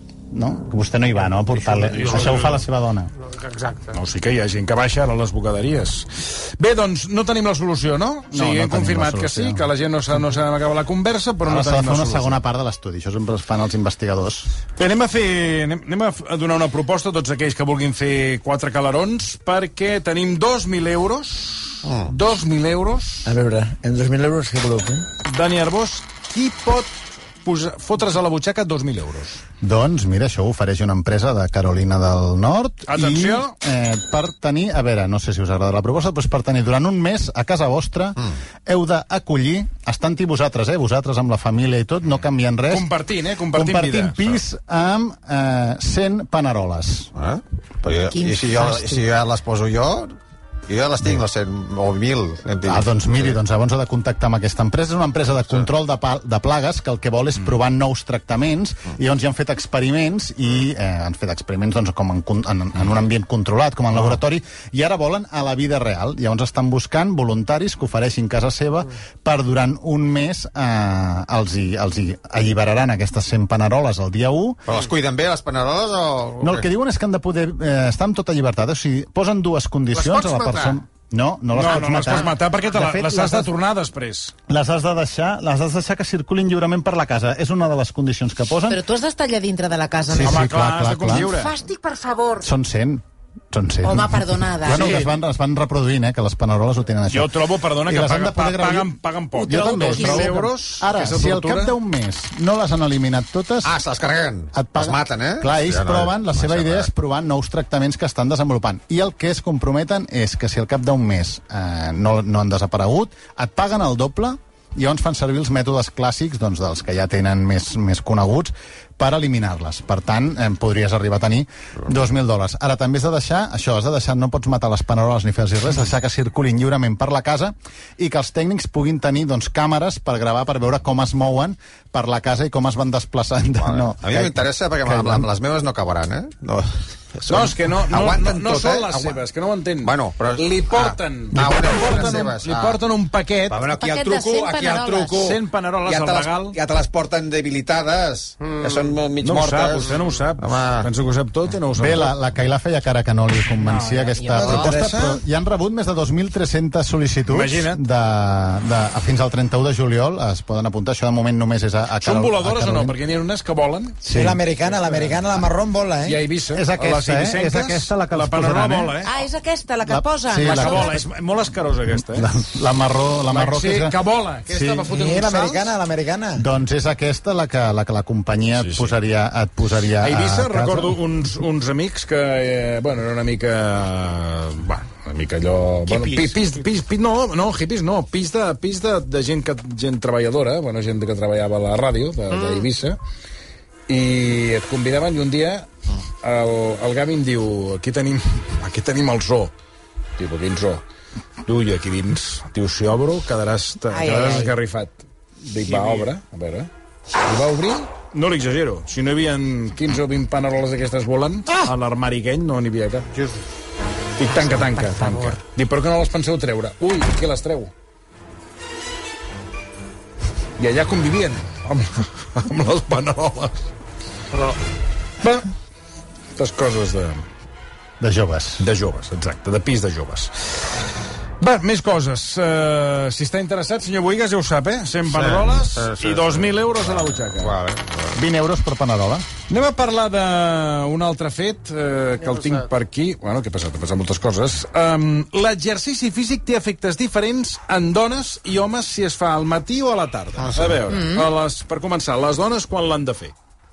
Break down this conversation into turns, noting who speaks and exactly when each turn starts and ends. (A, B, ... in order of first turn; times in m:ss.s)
0:00.3-0:03.1 A
0:01.6-0:02.6 B
0:01.9-0:02.4 C
0:03.2-0:03.9 B
0:03.9-0:12.4 C
0:08.3-0:09.7 A
0:11.4-0:14.5 A
0:14.8-0:23.3 C
0:21.8-0:22.1 D
0:23.2-0:25.1 E
0:25.2-0:29.4 C
0:29.6-0:42.9 A
0:32.9-0:33.5 C
0:42.7-0:44.4 C
0:43.5-0:47.1 A
0:47.2-0:50.1 D
0:48.1-0:49.0 F
0:50.7-0:53.4 D
0:52.6-1:14.6 A
1:14.7-1:16.6 D
1:16.4-1:23.5 A
1:19.9-1:20.7 B
1:20.3-1:20.7 D
1:21.5-1:24.3 C
1:24.5-1:28.8 A
1:28.7-1:30.4 F
1:30.1-1:31.3 A
1:30.2-1:31.5 C
1:31.1-1:32.5 F
1:32.4-1:43.8 A
1:33.8-1:35.1 F
1:37.1-1:41.7 C
1:39.4-1:40.4 F
1:43.6-1:46.9 D
1:44.5-2:15.3 A
2:13.6-2:19.2 D
2:17.3-2:23.6 C
2:19.8-2:22.8 D
2:23.5-2:30.9 D
2:23.7-2:25.2 F
2:25.1-2:26.6 C
2:28.4-2:28.8 B
2:29.2-2:32.2 C
2:31.7-2:43.0 A
2:33.6-2:34.2 C
2:34.2-2:35.2 E
2:34.4-2:34.8 D
2:37.3-2:37.8 C
2:42.0-2:44.0 C
2:44.0-2:44.4 A
2:44.0-2:46.2 E
2:44.6-2:45.5 C
2:46.0-2:49.1 C
2:46.5-2:49.0 A
2:49.0-2:51.0 F
2:49.8-2:51.0 A
2:50.4-2:52.3 C
2:52.0-2:54.9 A
2:53.3-2:55.7 C
2:54.9-2:56.4 E
2:56.3-3:01.0 A
2:58.5-2:59.0 C
3:00.0-3:13.0 C
3:13.9-3:15.7 C
3:16.2-3:19.5 C
3:20.2-3:20.8 C
3:21.4-3:26.7 C
3:23.9-3:24.5 F
3:25.7-3:26.1 B
3:27.2-3:33.1 C
3:34.2-3:37.7 C
3:34.3-3:35.3 F
3:40.6-3:43.6 C
3:45.2-3:45.5 C
3:46.4-3:47.2 C
3:48.0-3:48.6 A
3:48.6-3:50.3 C
3:51.4-3:57.5 C
3:55.1-3:58.2 D
3:58.1-3:59.2 A
3:59.5-4:13.3 C
4:10.5-4:10.9 D
4:10.9-4:11.2 F